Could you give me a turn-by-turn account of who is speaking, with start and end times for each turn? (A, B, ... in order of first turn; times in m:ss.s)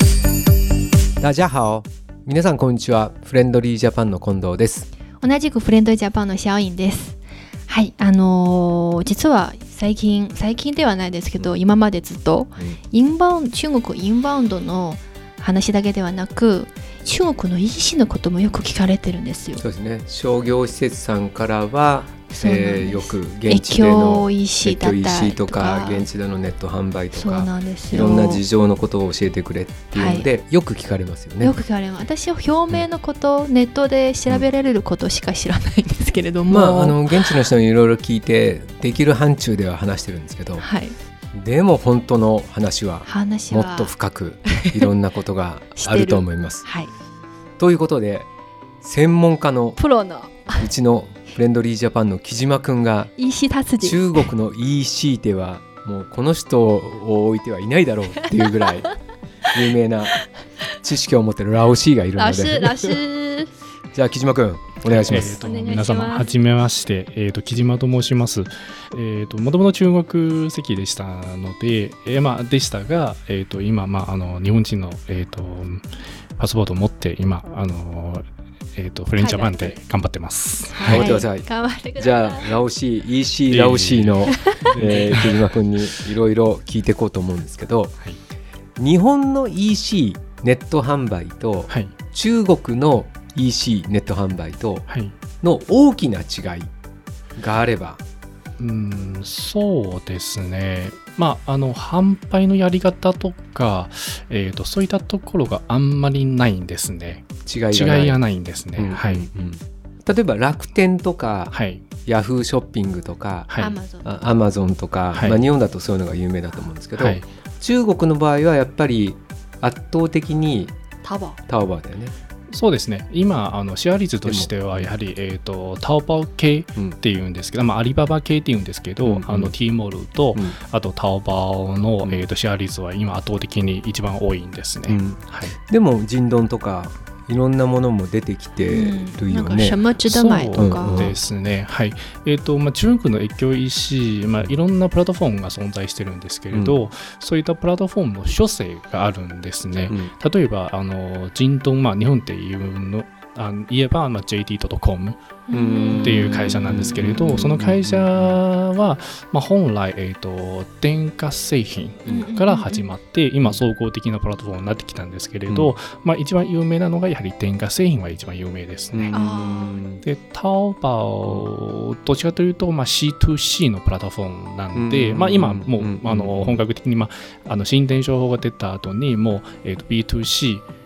0:01.2-0:04.9 A
0:05.2-0:19.6 B
0:19.6-0:31.5 A
0:22.3-0:26.1 B
0:27.1-0:28.4 B
0:29.9-0:30.3 B
0:31.4-0:37.5 B
0:36.5-0:40.7 A
0:40.6-0:41.0 B
0:41.3-0:46.7 A
0:43.0-0:43.9 B
0:44.4-0:44.9 B
0:45.8-0:46.9 B
0:47.6-0:48.3 A
0:48.8-0:49.8 A
0:49.8-0:50.7 B
0:50.6-0:53.1 A
0:53.2-0:54.3 B
0:53.8-0:58.9 A
0:58.2-0:58.9 B
0:59.5-1:00.2 A
1:00.8-1:03.0 A
1:02.2-1:03.5 B
1:03.9-1:05.4 A
1:04.9-1:15.8 C
1:05.2-1:06.4 B
1:16.4-1:18.2 C
1:18.8-1:21.2 C
1:19.2-1:19.8 B
1:20.7-1:22.6 B
1:20.9-1:28.0 A
1:23.5-1:25.5 C
1:24.3-1:24.7 B
1:28.8-1:34.9 A
1:31.7-1:31.9 C
1:34.9-1:35.2 C
1:35.4-1:36.7 A
1:37.4-1:38.0 A
1:38.6-1:49.3 C
1:47.5-1:48.2 A
1:48.8-1:51.6 A
1:51.5-1:51.8 C
1:52.1-2:00.7 A
1:53.5-1:53.8 C
1:53.6-1:54.1 B
1:55.1-1:55.4 C
1:57.0-1:57.3 C
2:01.0-2:01.4 B
2:01.5-2:02.1 A
2:02.5-2:15.6 C
2:04.2-2:04.9 A
2:09.0-2:09.6 A
2:14.9-2:19.8 A
2:18.7-2:21.1 B
2:20.1-2:35.2 C
2:20.6-2:21.2 A
2:26.5-2:26.8 A
2:35.5-2:36.5 B
2:35.5-2:38.4 A
2:36.0-2:49.2 C
2:42.1-2:42.8 B
2:48.9-2:50.0 A
2:49.1-2:49.8 B
2:50.0-3:00.6 C
2:54.8-2:56.6 A